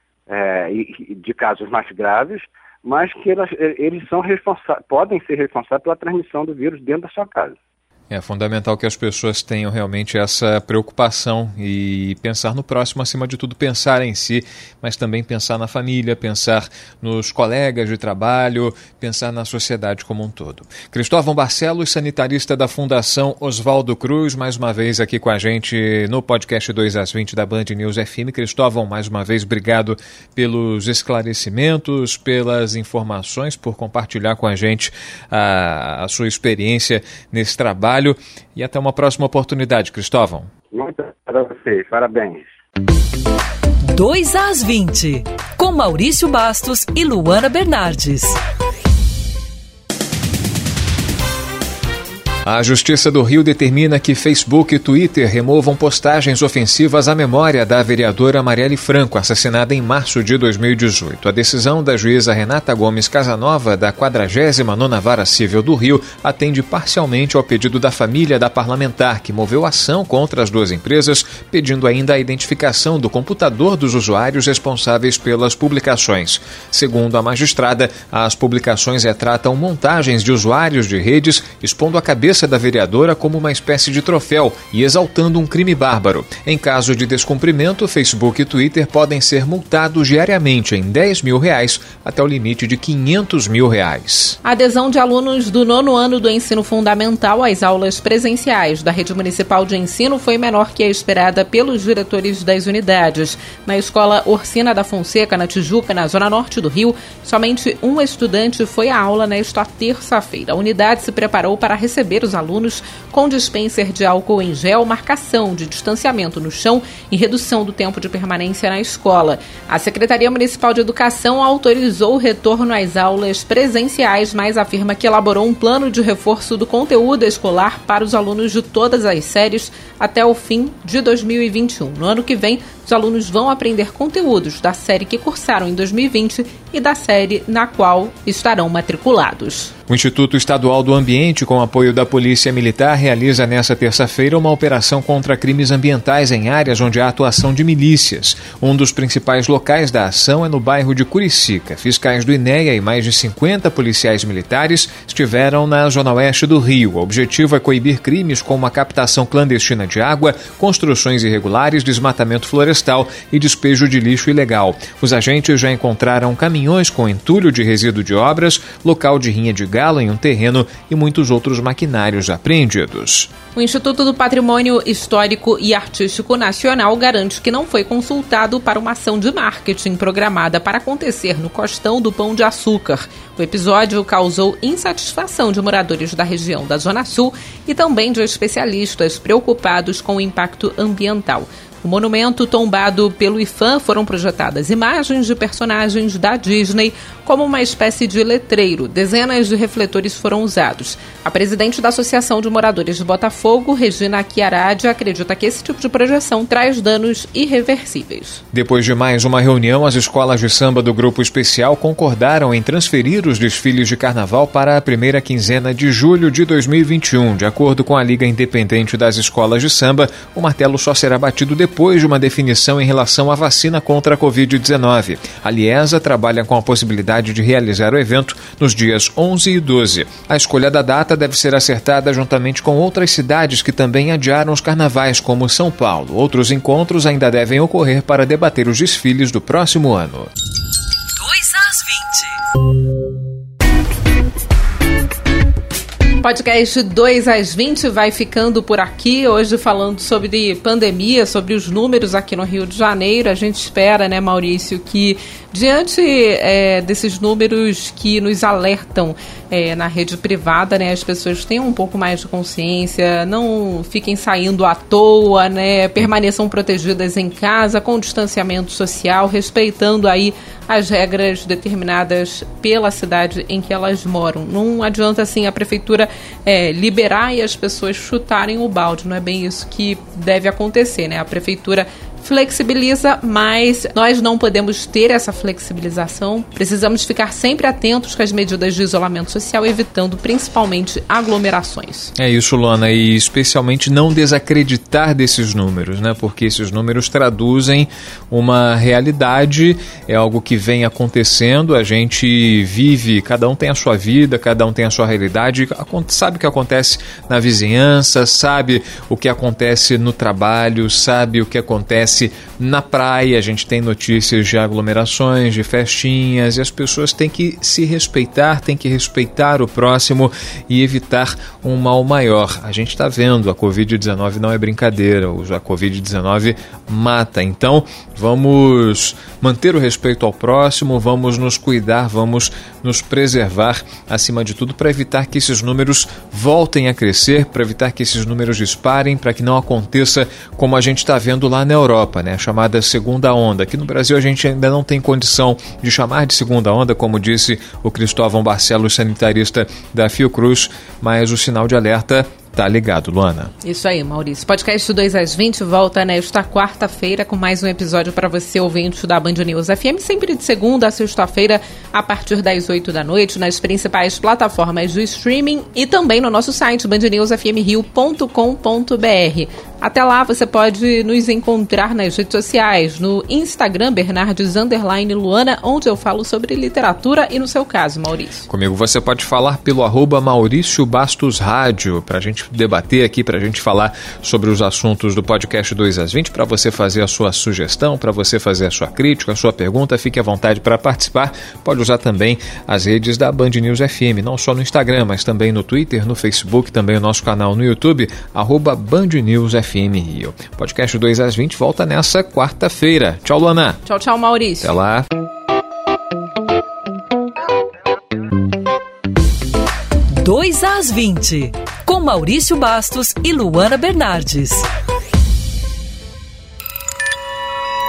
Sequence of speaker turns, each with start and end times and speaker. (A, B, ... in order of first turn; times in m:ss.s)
0:00.3-0:07.6 A
0:08.1-0:40.5 B
0:40.7-0:42.5 A
0:43.8-0:48.4 C
0:52.4-1:34.4 B
1:34.4-2:19.7 D
2:19.9-2:53.3 B
2:53.6-3:28.4 D
3:28.5-4:00.3 B
4:01.1-4:02.4 C
4:06.2-4:52.1 D
4:52.2-5:53.5 B
5:53.6-6:18.5 D
6:18.5-6:43.8 B
6:43.9-6:44.7 D
6:44.6-6:45.1 B
6:50.1-6:54.7 C